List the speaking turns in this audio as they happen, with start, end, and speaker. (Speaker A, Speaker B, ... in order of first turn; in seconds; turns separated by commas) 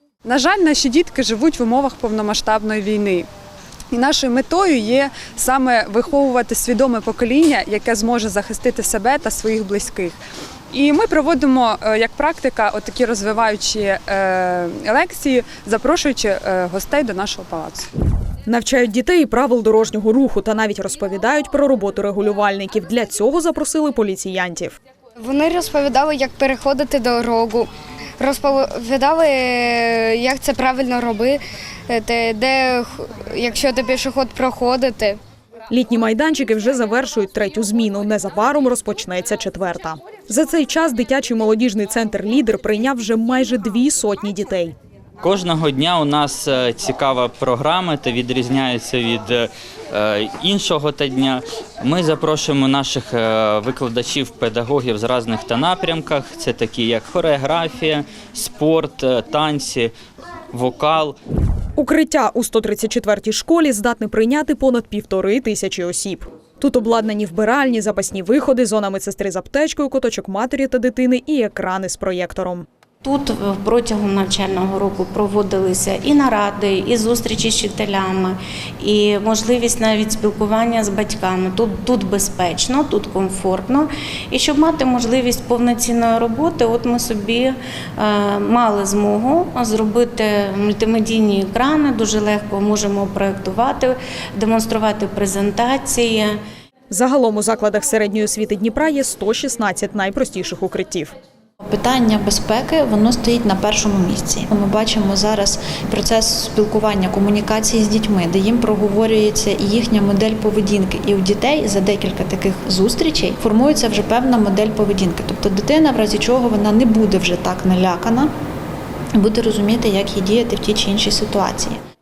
Speaker A: 0.2-3.3, Speaker A: 3.9-10.2, Speaker A: 10.7-17.9, Speaker B: 18.4-24.8, Speaker C: 25.2-35.2, Speaker B: 35.7-44.7, Speaker D: 45.2-59.9, Speaker D: 60.5-61.2, Speaker B: 61.8-72.7, Speaker E: 73.0-96.3, Speaker B: 96.9-101.1, Speaker F: 101.7-118.3, Speaker F: 119.2-121.8